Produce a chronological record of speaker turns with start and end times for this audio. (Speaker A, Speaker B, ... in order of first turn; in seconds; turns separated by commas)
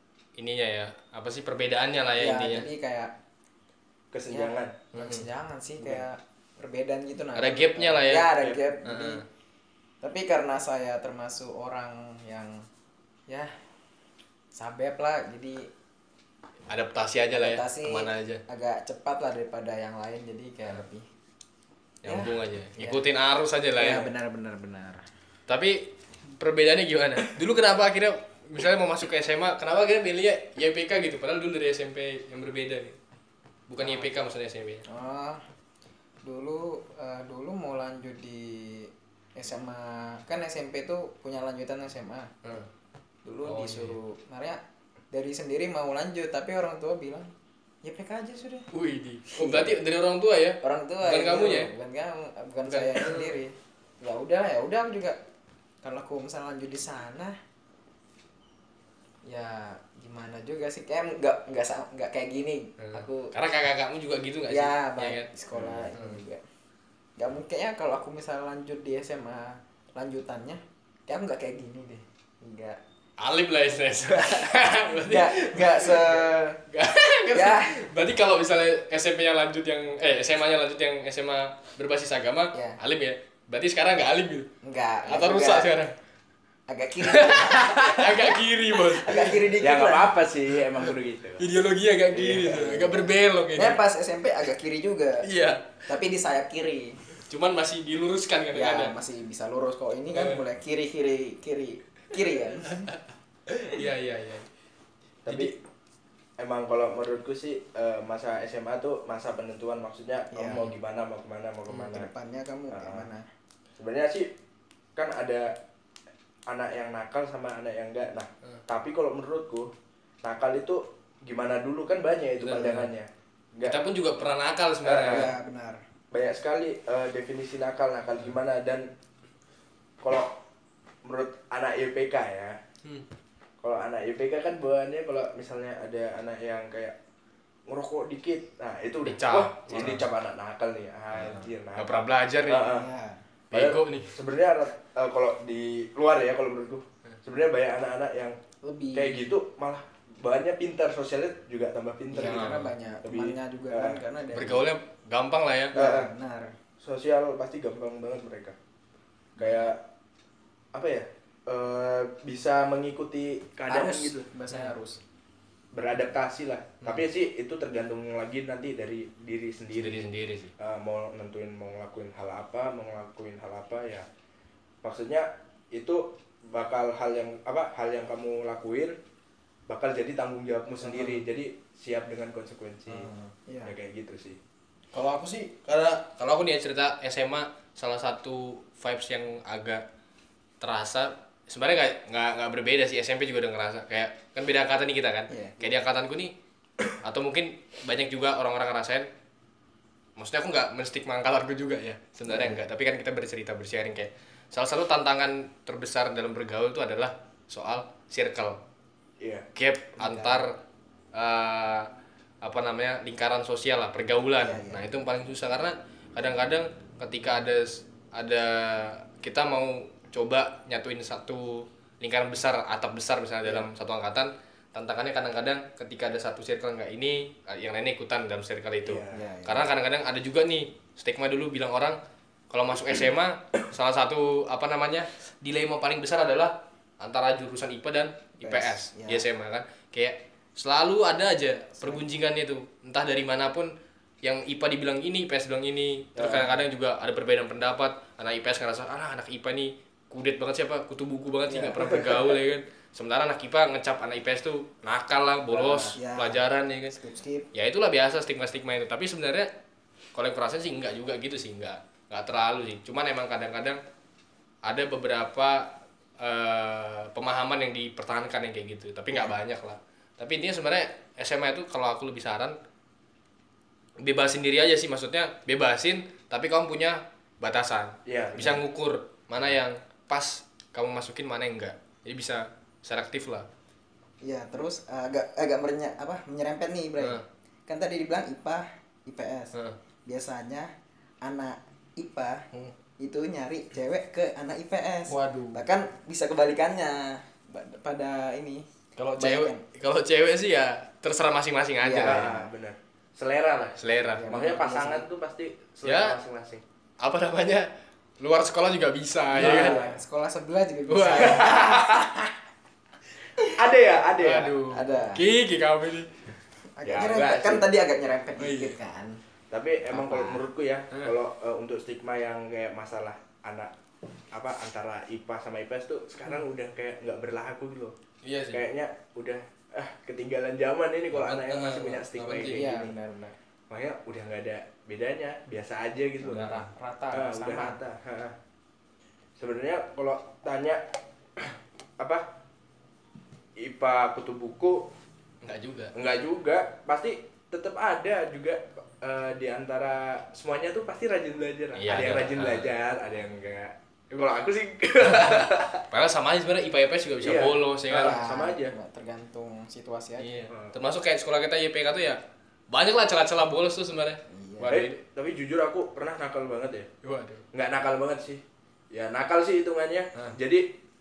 Speaker A: 0.3-2.7, Speaker B: 2.2-3.1, Speaker C: 4.1-4.8, Speaker B: 4.3-9.2, Speaker A: 4.9-5.2, Speaker A: 7.3-9.2, Speaker B: 10.0-12.7, Speaker B: 13.3-13.5, Speaker B: 14.5-15.7, Speaker A: 16.7-18.4, Speaker B: 17.3-21.1, Speaker A: 22.0-24.1, Speaker B: 22.0-23.0, Speaker B: 23.8-25.0, Speaker A: 25.5-33.0, Speaker A: 33.7-34.9, Speaker B: 33.8-34.2, Speaker B: 34.9-35.4, Speaker B: 36.2-42.3, Speaker B: 43.2-47.3, Speaker A: 43.4-44.0, Speaker B: 47.8-48.7, Speaker A: 48.7-51.7, Speaker B: 49.3-49.7, Speaker B: 50.6-55.2, Speaker A: 52.7-53.4, Speaker B: 55.8-57.4, Speaker B: 59.2-63.3, Speaker A: 62.8-65.3, Speaker B: 64.5-66.4, Speaker C: 65.5-65.8, Speaker A: 65.9-66.2, Speaker B: 67.2-72.8, Speaker A: 73.2-84.5, Speaker B: 74.2-76.6, Speaker B: 77.3-77.9, Speaker B: 84.6-85.7, Speaker A: 85.0-85.9, Speaker B: 86.7-90.1, Speaker A: 87.0-89.5, Speaker C: 89.6-91.5, Speaker A: 91.4-93.8, Speaker B: 92.1-95.3, Speaker A: 95.2-95.8, Speaker B: 95.8-97.0, Speaker A: 97.3-98.9, Speaker B: 98.5-102.9, Speaker A: 100.1-100.4, Speaker A: 102.5-104.5, Speaker C: 105.2-105.5, Speaker A: 105.3-105.5, Speaker C: 106.4-112.1, Speaker B: 110.3-110.7, Speaker B: 111.7-113.2, Speaker C: 112.7-113.1, Speaker C: 113.8-114.3, Speaker C: 114.9-115.6, Speaker C: 116.5-119.7, Speaker C: 120.2-123.8, Speaker A: 122.4-122.9, Speaker A: 123.6-125.3, Speaker C: 124.8-125.3, Speaker B: 125.0-125.8, Speaker C: 126.1-128.9, Speaker C: 130.0-130.4, Speaker C: 131.0-132.6, Speaker C: 133.6-136.9, Speaker C: 137.7-142.9, Speaker A: 139.0-140.1, Speaker A: 141.2-142.8, Speaker B: 142.6-143.2, Speaker A: 143.5-144.2, Speaker C: 143.5-148.4, Speaker B: 148.6-149.3, Speaker C: 148.9-154.0, Speaker B: 152.1-154.7, Speaker A: 152.2-152.7, Speaker A: 154.3-155.8, Speaker C: 155.7-156.1, Speaker B: 155.7-156.5, Speaker C: 156.8-158.6, Speaker B: 159.3-159.7, Speaker C: 159.4-159.8, Speaker C: 160.7-164.3, Speaker B: 163.7-165.0, Speaker C: 165.7-174.1, Speaker A: 169.7-170.5, Speaker C: 174.8-179.0, Speaker C: 179.7-183.1, Speaker B: 180.8-181.2, Speaker B: 182.9-183.7, Speaker C: 183.6-184.4, Speaker A: 184.9-189.8, Speaker A: 190.6-196.3, Speaker B: 195.3-195.6, Speaker A: 196.9-199.1, Speaker A: 200.2-208.6, Speaker B: 202.3-202.6, Speaker C: 209.2-209.5, Speaker A: 209.5-210.6, Speaker B: 210.0-210.4, Speaker A: 211.1-211.9, Speaker A: 212.4-232.0, Speaker B: 214.4-214.8, Speaker C: 228.8-229.2, Speaker B: 229.1-229.7, Speaker A: 232.5-256.9, Speaker B: 238.4-239.2, Speaker C: 246.2-246.6, Speaker C: 251.5-252.3, Speaker C: 255.5-255.9, Speaker B: 255.9-257.5, Speaker A: 257.5-259.5, Speaker A: 260.1-263.8, Speaker A: 264.6-272.6, Speaker A: 274.0-283.5, Speaker C: 278.1-278.6, Speaker B: 284.2-289.5, Speaker B: 290.1-290.7, Speaker B: 291.2-292.4, Speaker B: 293.0-299.6, Speaker A: 295.1-295.6, Speaker A: 298.9-302.3, Speaker B: 301.8-302.4, Speaker C: 302.0-306.6, Speaker A: 303.8-304.3, Speaker B: 304.1-305.1, Speaker A: 305.8-306.2, Speaker A: 307.0-309.9, Speaker C: 309.3-309.9, Speaker B: 309.3-312.3, Speaker A: 310.9-311.7, Speaker C: 311.2-312.1, Speaker C: 313.5-314.6, Speaker A: 314.2-316.1, Speaker B: 314.7-315.2, Speaker B: 316.8-319.2, Speaker C: 316.8-317.7, Speaker A: 318.4-318.7, Speaker C: 319.5-323.7, Speaker B: 319.9-320.4, Speaker C: 324.3-327.9, Speaker A: 328.2-328.6, Speaker C: 328.5-332.9, Speaker A: 331.1-332.8, Speaker B: 332.5-333.3, Speaker C: 333.7-336.6, Speaker B: 336.2-337.8, Speaker A: 336.3-336.6, Speaker C: 337.1-338.3, Speaker C: 339.4-340.8, Speaker C: 341.4-342.3, Speaker C: 343.6-344.9, Speaker A: 345.4-345.9, Speaker C: 345.9-355.8, Speaker A: 351.8-352.7, Speaker A: 355.1-358.2, Speaker C: 357.2-358.7, Speaker B: 357.9-360.4, Speaker A: 360.2-365.0, Speaker C: 360.5-360.7, Speaker B: 364.3-364.7, Speaker C: 364.7-366.9, Speaker A: 367.0-367.4, Speaker C: 367.5-370.8